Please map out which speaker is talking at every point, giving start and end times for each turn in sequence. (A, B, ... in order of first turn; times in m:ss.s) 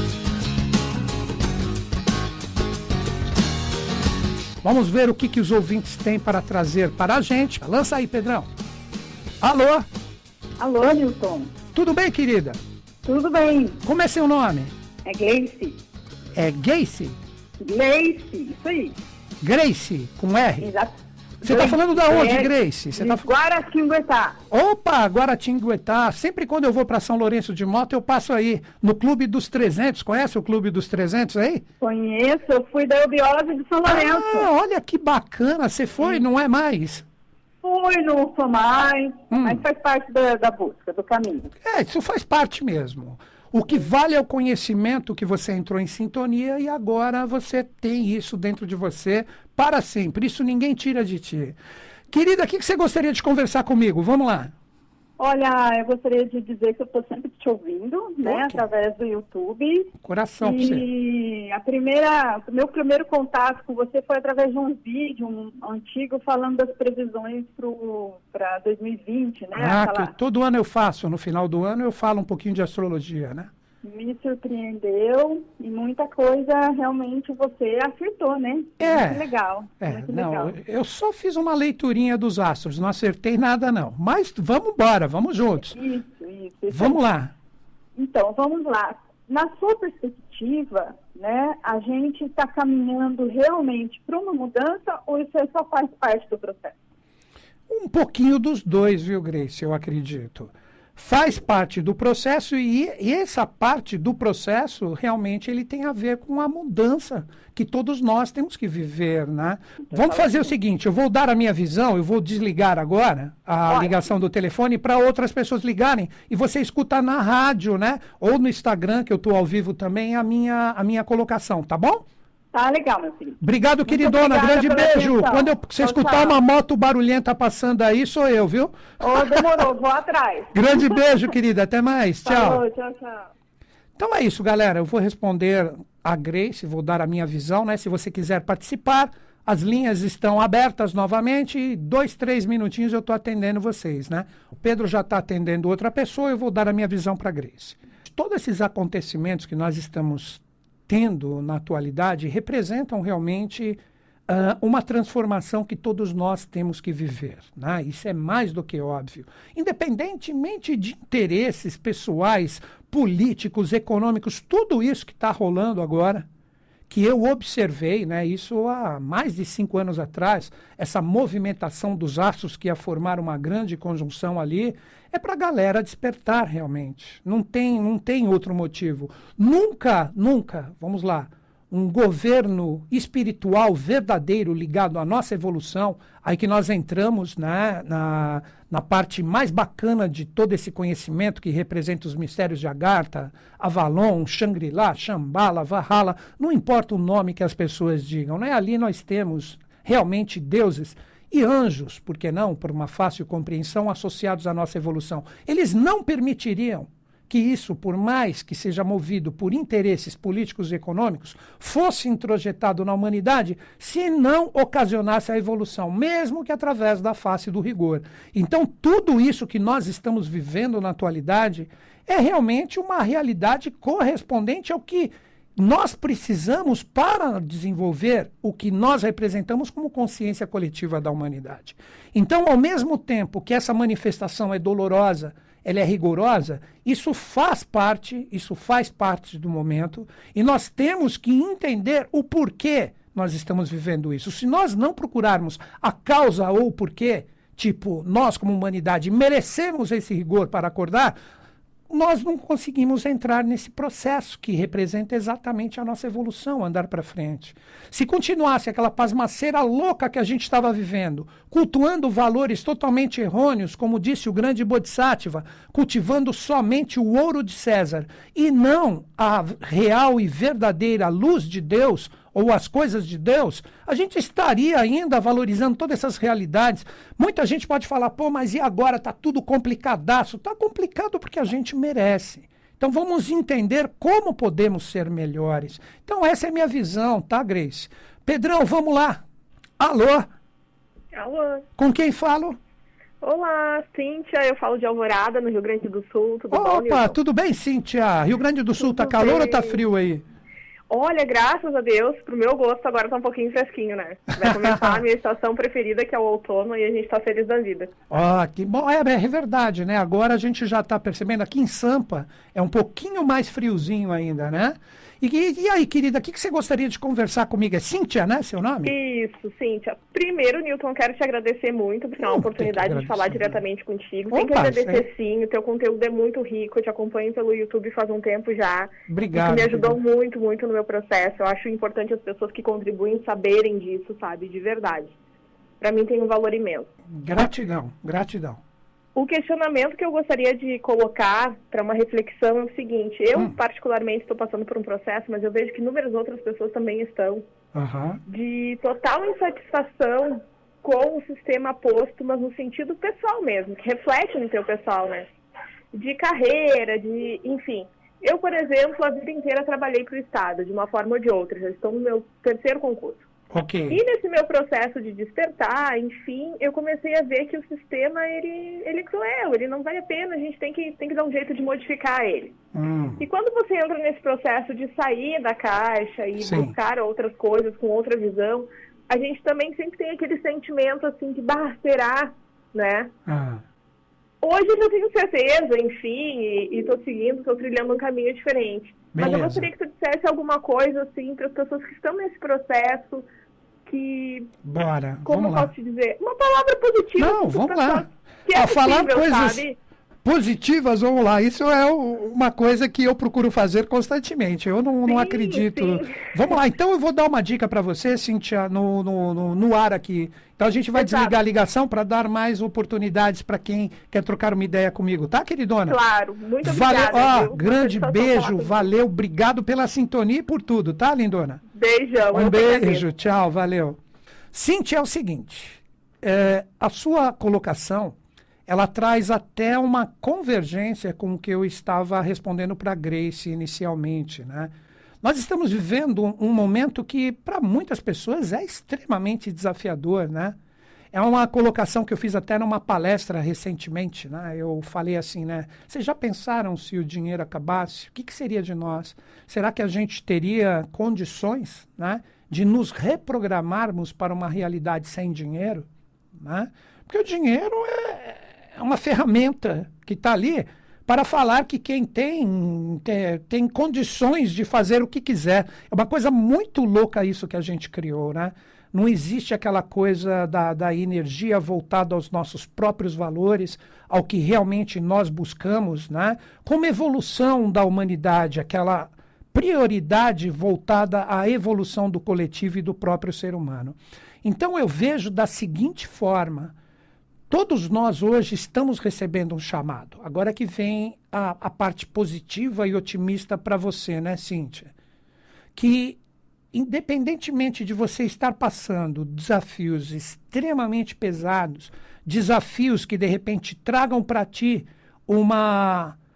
0:04.6-0:08.5 A
0:09.4-0:09.9 A
0:10.6-0:11.5 B
0:11.7-0:12.6 A
0:13.0-0:13.8 B
0:13.8-0:14.7 A
0:15.0-0:15.8 B
0:16.3-0:17.2 A
0:17.6-0:19.0 B
0:19.4-0:20.7 A
0:20.6-0:24.4 B
0:21.4-0:23.3 A
0:24.5-0:31.6 A
0:31.8-0:34.5 B
0:33.8-0:37.0 A
0:37.6-0:41.5 B
0:39.3-0:39.6 A
0:41.6-0:51.6 A
0:52.1-0:54.5 A
0:55.2-1:10.1 B
0:58.2-0:58.6 A
1:00.0-1:00.8 A
1:09.5-1:13.5 A
1:13.8-1:20.6 B
1:18.8-1:19.3 A
1:19.8-1:25.8 A
1:25.7-1:27.0 B
1:26.7-1:27.3 A
1:28.0-1:36.7 B
1:37.7-2:02.0 A
1:50.0-1:50.2 B
1:53.7-1:53.9 B
2:02.5-2:06.4 B
2:03.4-2:09.4 A
2:09.0-2:11.0 B
2:10.5-2:12.6 A
2:12.2-2:13.2 B
2:14.0-2:46.2 A
2:46.9-4:11.2 A
4:11.9-4:49.2 A
4:49.8-4:50.3 A
4:51.1-4:51.6 C
4:51.8-4:52.6 A
4:53.2-4:57.1 C
4:56.5-5:00.2 A
4:58.8-4:59.8 C
5:00.9-5:07.9 C
5:04.3-5:05.0 A
5:08.1-5:18.9 A
5:18.8-5:35.2 C
5:22.2-5:23.6 A
5:24.3-5:25.0 A
5:29.1-5:30.0 A
5:35.8-5:36.9 C
5:37.1-5:38.6 A
5:39.1-5:47.4 C
5:47.7-5:48.2 A
5:48.3-5:55.3 C
5:55.9-6:03.2 C
6:03.5-6:04.0 A
6:03.9-6:12.5 C
6:12.7-6:13.2 A
6:13.2-6:23.1 C
6:16.4-6:16.7 A
6:23.2-6:23.6 A
6:24.4-6:33.2 C
6:29.1-6:29.7 A
6:33.8-6:34.5 C
6:34.6-6:35.7 A
6:35.2-6:39.8 C
6:37.2-6:39.6 A
6:40.2-6:56.0 A
6:45.0-6:46.2 C
6:50.9-6:51.3 C
6:55.9-6:58.9 C
6:56.6-7:01.6 A
7:01.7-7:03.0 C
7:02.3-7:04.0 A
7:04.5-7:08.2 A
7:08.7-7:20.6 A
7:21.1-8:06.7 A
8:07.5-8:14.9 A
8:15.8-8:16.2 A
8:16.7-8:26.2 A